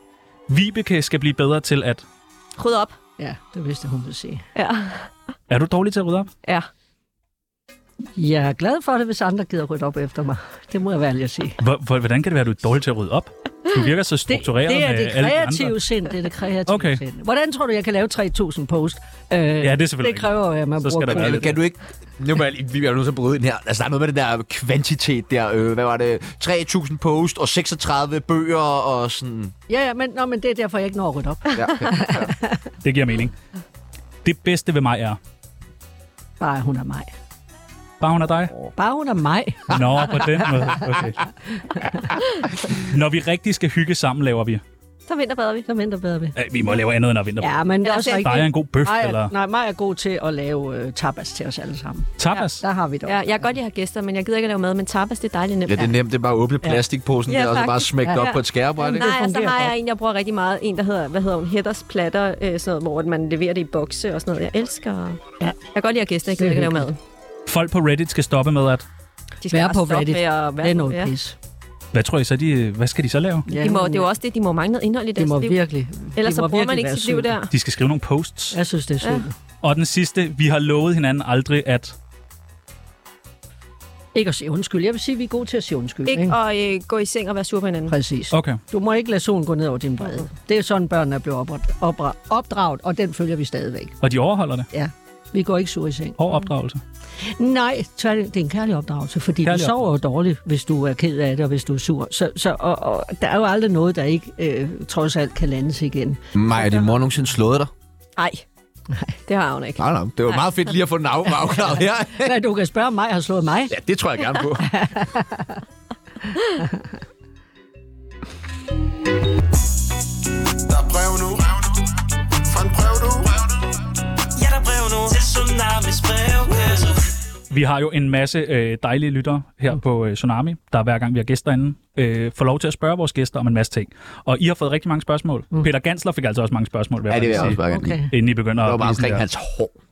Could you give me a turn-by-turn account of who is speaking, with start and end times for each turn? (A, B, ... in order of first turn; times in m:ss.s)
0:00.5-0:02.0 A
0:02.6-0:02.9 B
0:03.2-0:04.4 C
0:04.5-0:05.1 B
0:05.5-0:06.3 A
0:08.2-0:11.6 C
0:11.6-0:15.8 A
0:14.3-0:21.6 C
0:16.7-0:17.0 A
0:19.6-0:21.6 A
0:21.1-0:29.5 D
0:29.7-0:32.6 C
0:31.5-0:32.3 D
0:32.8-0:33.3 A
0:34.2-0:35.2 A
0:36.4-0:37.1 C
0:38.0-0:38.5 A
0:38.8-0:39.8 C
0:39.7-0:41.2 A
0:41.5-0:42.0 C
0:42.7-0:44.6 A
0:45.1-0:45.7 B
0:45.7-0:46.4 C
0:46.4-0:49.3 A
0:47.4-0:53.2 C
0:47.8-0:48.4 B
0:52.2-0:52.6 A
0:53.0-0:55.9 B
0:55.7-0:59.1 D
0:57.3-1:07.0 B
0:58.0-0:59.7 C
1:06.4-1:06.8 C
1:07.5-1:08.8 A
1:09.4-1:11.1 B
1:09.5-1:11.4 C
1:11.9-1:13.5 A
1:13.5-1:14.1 C
1:13.6-1:15.6 B
1:15.2-1:17.3 C
1:16.1-1:17.5 B
1:17.5-1:18.6 A
1:18.5-1:19.3 C
1:19.6-1:21.9 A
1:24.1-1:26.4 C
1:26.1-1:27.9 B
1:27.9-1:33.9 C
1:28.3-1:28.6 A
1:34.0-1:34.7 A
1:34.7-1:36.2 C
1:36.2-1:36.8 A
1:37.4-1:46.2 C
1:39.4-1:39.9 A
1:46.3-1:47.7 D
1:48.2-1:48.4 B
1:49.3-1:50.7 B
1:49.8-1:52.4 D
1:51.8-1:53.7 C
1:53.7-1:54.7 D
1:54.6-1:55.6 C
1:56.6-1:56.8 C
2:00.6-2:01.7 E
2:02.4-2:03.5 E
2:04.4-2:07.0 F
2:07.5-2:19.2 A
2:17.1-2:18.0 D
2:17.4-2:18.1 C
2:18.6-2:19.7 D